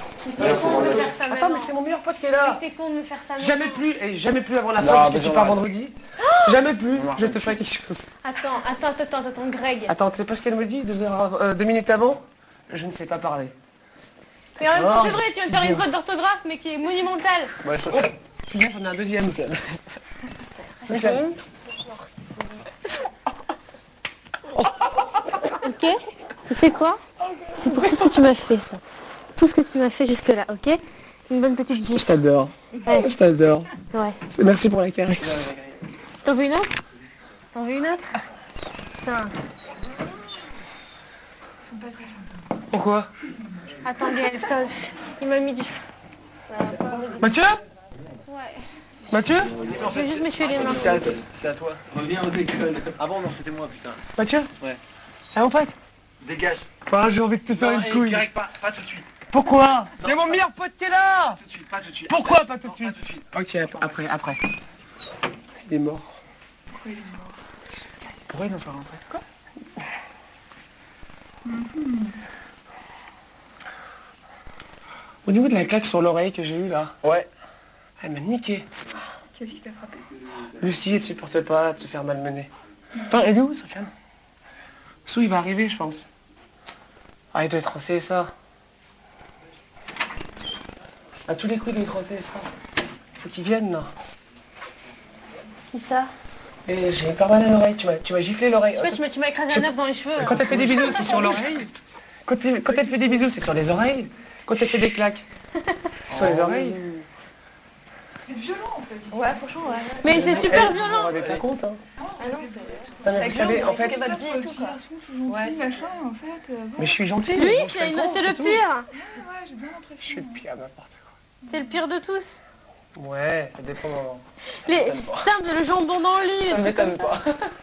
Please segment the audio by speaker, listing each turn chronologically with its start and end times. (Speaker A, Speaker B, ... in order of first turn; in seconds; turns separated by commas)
Speaker A: 0.2-1.7, Speaker B: 0.3-2.6, Speaker C: 0.4-1.0, Speaker A: 2.4-3.8, Speaker B: 3.4-8.1, Speaker C: 4.8-5.6, Speaker A: 6.2-6.6, Speaker C: 6.9-7.6, Speaker A: 8.2-9.9, Speaker B: 9.9-13.5, Speaker A: 14.6-17.5, Speaker B: 14.6-15.9, Speaker C: 17.6-18.1, Speaker B: 17.9-19.8, Speaker C: 19.2-19.6, Speaker A: 20.6-22.7, Speaker B: 20.9-21.3, Speaker B: 24.5-25.4, Speaker A: 25.6-27.0, Speaker B: 27.3-28.1, Speaker A: 27.5-28.8, Speaker A: 29.4-32.1, Speaker B: 31.7-33.7, Speaker A: 32.8-33.1, Speaker A: 33.9-34.2, Speaker B: 34.3-35.5, Speaker A: 36.2-36.8, Speaker A: 37.5-38.2, Speaker A: 38.9-39.4, Speaker D: 41.6-42.4, Speaker B: 42.7-43.1, Speaker A: 43.8-45.8, Speaker A: 46.5-47.3, Speaker B: 47.2-47.6, Speaker A: 48.2-48.7, Speaker B: 49.1-49.6, Speaker C: 49.4-54.1, Speaker A: 49.6-51.2, Speaker B: 54.1-54.5, Speaker B: 55.3-55.7, Speaker C: 56.2-56.7, Speaker B: 56.9-58.3, Speaker C: 57.5-59.2, Speaker B: 59.3-61.4, Speaker C: 60.0-60.4, Speaker C: 61.2-64.0, Speaker B: 62.1-64.4, Speaker B: 65.6-66.1, Speaker D: 66.7-67.4, Speaker B: 68.3-69.2, Speaker D: 71.5-72.2, Speaker B: 75.2-77.0, Speaker B: 78.0-78.7, Speaker D: 79.3-80.0, Speaker B: 80.5-82.5, Speaker B: 83.0-83.9, Speaker B: 85.1-86.0, Speaker B: 87.3-88.3, Speaker B: 91.3-92.5, Speaker B: 93.2-93.9, Speaker A: 95.7-96.1, Speaker B: 96.7-101.7, Speaker A: 98.7-101.6, Speaker B: 102.2-105.2, Speaker B: 106.1-106.8, Speaker C: 106.1-107.0, Speaker D: 108.2-109.7, Speaker E: 109.1-110.7, Speaker A: 109.9-111.2, Speaker B: 110.1-111.8, Speaker D: 112.0-117.0, Speaker E: 112.2-115.9, Speaker A: 112.2-112.9, Speaker B: 113.0-114.2, Speaker B: 116.8-118.6, Speaker A: 117.3-118.9, Speaker D: 118.9-120.4, Speaker B: 120.0-121.0, Speaker A: 121.5-122.4, Speaker B: 122.9-125.3, Speaker A: 124.5-127.1, Speaker B: 126.4-127.4